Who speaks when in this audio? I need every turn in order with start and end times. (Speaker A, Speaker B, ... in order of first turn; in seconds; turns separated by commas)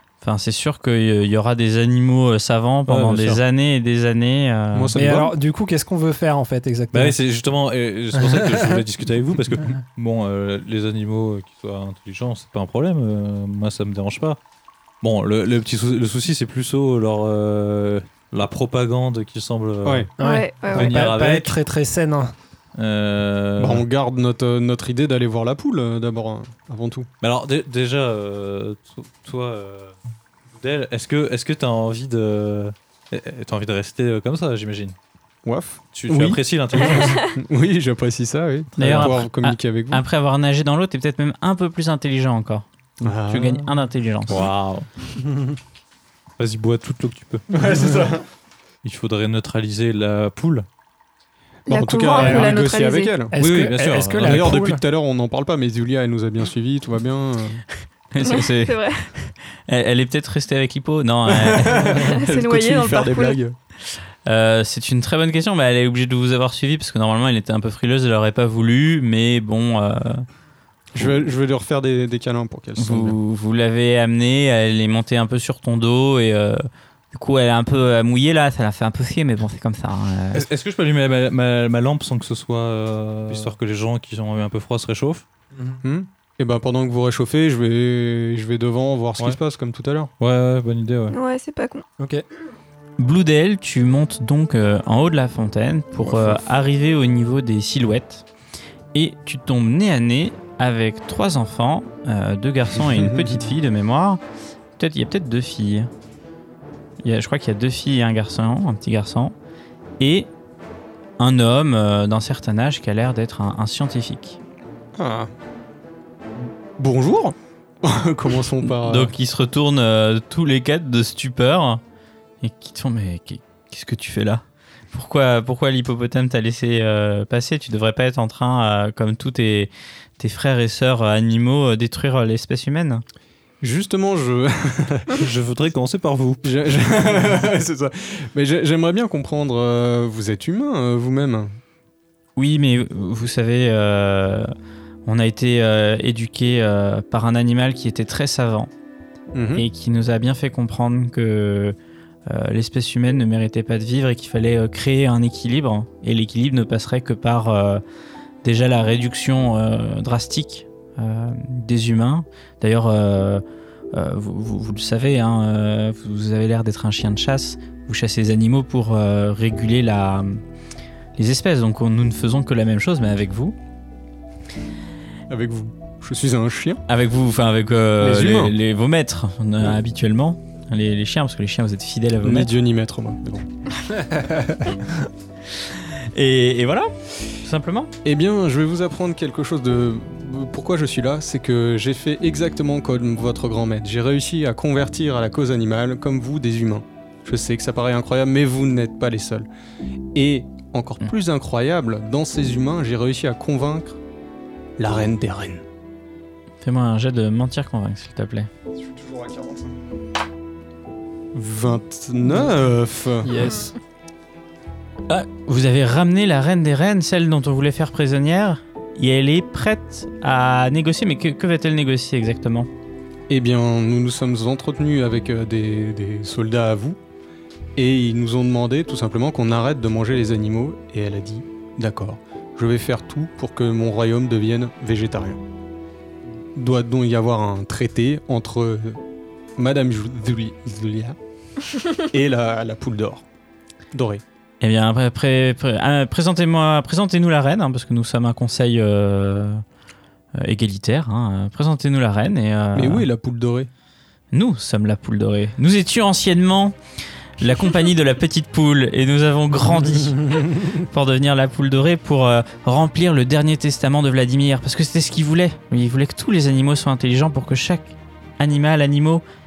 Speaker A: 0.2-5.0, Speaker B: 2.9-3.4, Speaker C: 4.7-5.3, Speaker D: 5.0-7.2, Speaker B: 6.9-14.4, Speaker D: 8.2-8.7, Speaker B: 15.0-20.1, Speaker E: 20.2-21.1, Speaker D: 20.2-22.3, Speaker B: 20.7-21.6, Speaker B: 22.8-23.8, Speaker C: 23.6-27.1, Speaker B: 27.2-29.9, Speaker B: 30.5-35.0, Speaker C: 35.5-40.0, Speaker B: 35.9-37.3, Speaker E: 36.9-37.3, Speaker A: 38.8-44.5, Speaker B: 38.8-39.1, Speaker C: 43.0-43.7, Speaker B: 44.3-44.9, Speaker B: 46.4-47.5, Speaker C: 47.5-48.2, Speaker B: 48.8-50.7, Speaker E: 51.7-53.1, Speaker C: 51.7-53.3, Speaker D: 52.1-52.6, Speaker D: 53.3-54.8, Speaker B: 53.4-54.7, Speaker C: 54.2-57.6, Speaker A: 58.1-62.1, Speaker E: 58.2-59.1, Speaker C: 61.3-63.6, Speaker E: 61.9-63.4, Speaker A: 64.3-70.3, Speaker C: 70.9-73.2, Speaker A: 72.8-80.5, Speaker B: 80.3-85.2, Speaker C: 85.8-90.1, Speaker B: 90.2-91.2, Speaker E: 91.1-91.8, Speaker D: 92.0-92.2, Speaker A: 93.0-98.3, Speaker C: 96.0-96.4, Speaker A: 98.9-104.2, Speaker C: 102.8-103.4, Speaker A: 104.8-105.9, Speaker A: 107.0-109.3, Speaker A: 110.0-110.3, Speaker A: 111.2-114.4, Speaker C: 115.0-115.3, Speaker C: 116.8-119.1, Speaker A: 118.7-121.8, Speaker A: 122.4-133.0, Speaker C: 133.6-135.2, Speaker B: 135.1-136.4, Speaker C: 136.4-141.6, Speaker A: 142.4-144.5, Speaker A: 145.1-148.7, Speaker C: 149.3-149.7, Speaker A: 149.6-151.8, Speaker A: 152.3-157.8, Speaker A: 158.4-170.4, Speaker A: 171.2-173.6, Speaker C: 175.3-176.8, Speaker A: 176.9-182.5, Speaker C: 178.0-178.6, Speaker C: 182.2-183.5, Speaker A: 186.1-187.9, Speaker C: 188.0-199.5, Speaker C: 200.1-204.0, Speaker C: 204.8-205.6, Speaker A: 206.6-208.5, Speaker C: 208.8-209.8, Speaker C: 211.3-213.5, Speaker D: 213.2-213.7, Speaker A: 215.1-222.7, Speaker C: 223.3-227.0, Speaker C: 227.8-235.4, Speaker C: 236.6-239.0, Speaker C: 239.6-241.2, Speaker C: 242.1-243.2, Speaker C: 243.9-244.2, Speaker A: 244.6-249.6, Speaker A: 250.4-253.1, Speaker C: 252.7-253.7, Speaker A: 254.3-256.8, Speaker A: 257.4-269.2